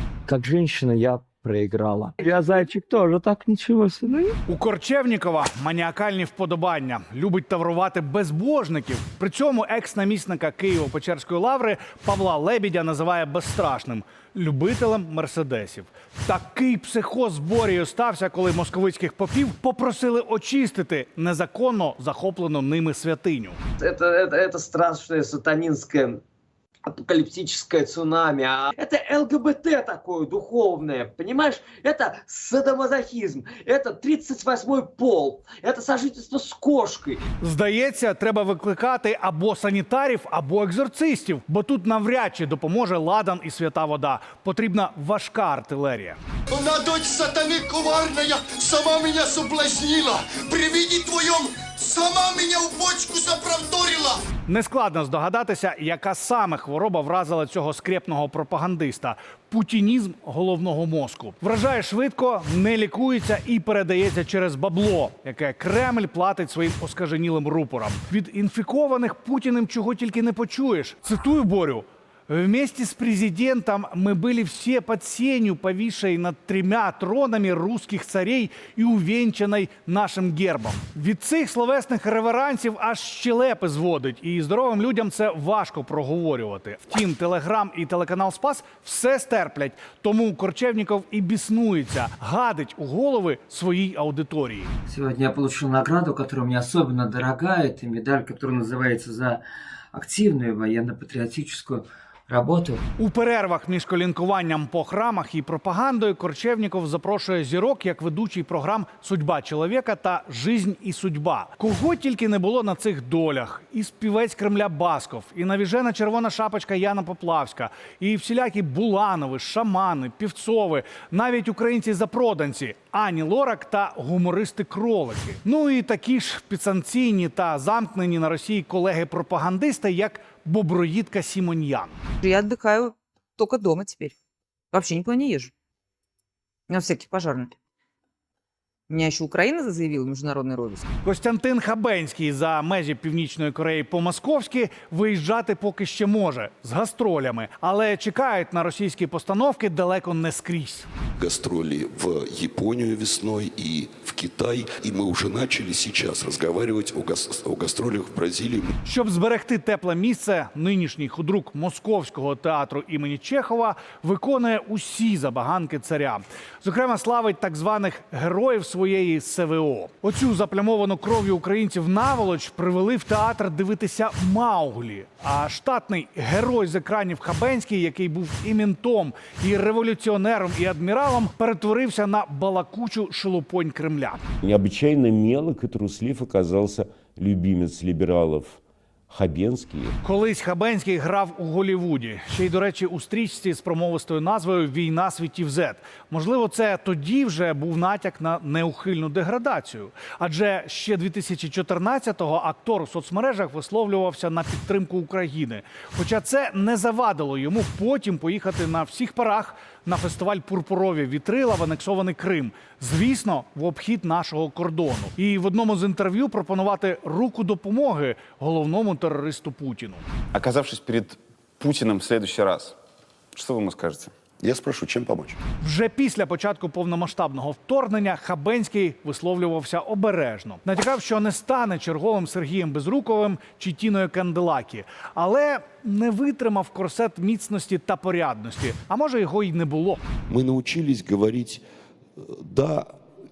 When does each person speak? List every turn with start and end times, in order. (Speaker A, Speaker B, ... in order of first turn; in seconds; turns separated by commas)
Speaker A: 0.3-4.4, Speaker B: 4.5-23.6, Speaker C: 23.8-26.2, Speaker C: 26.9-37.2, Speaker B: 37.4-46.2, Speaker D: 46.5-54.2, Speaker B: 54.5-94.7, Speaker A: 94.9-99.4, Speaker A: 99.9-102.8, Speaker B: 103.0-132.0, Speaker E: 132.2-134.2, Speaker E: 134.7-135.5, Speaker E: 136.7-137.5, Speaker E: 138.9-140.8, Speaker B: 141.0-150.9, Speaker F: 151.2-158.7, Speaker B: 158.8-184.2, Speaker G: 184.4-189.9, Speaker B: 190.0-220.1, Speaker H: 220.3-222.8, Speaker H: 223.3-224.1, Speaker F: 224.4-225.4, Speaker B: 225.6-240.0, Speaker F: 240.3-241.6, Speaker F: 242.2-243.0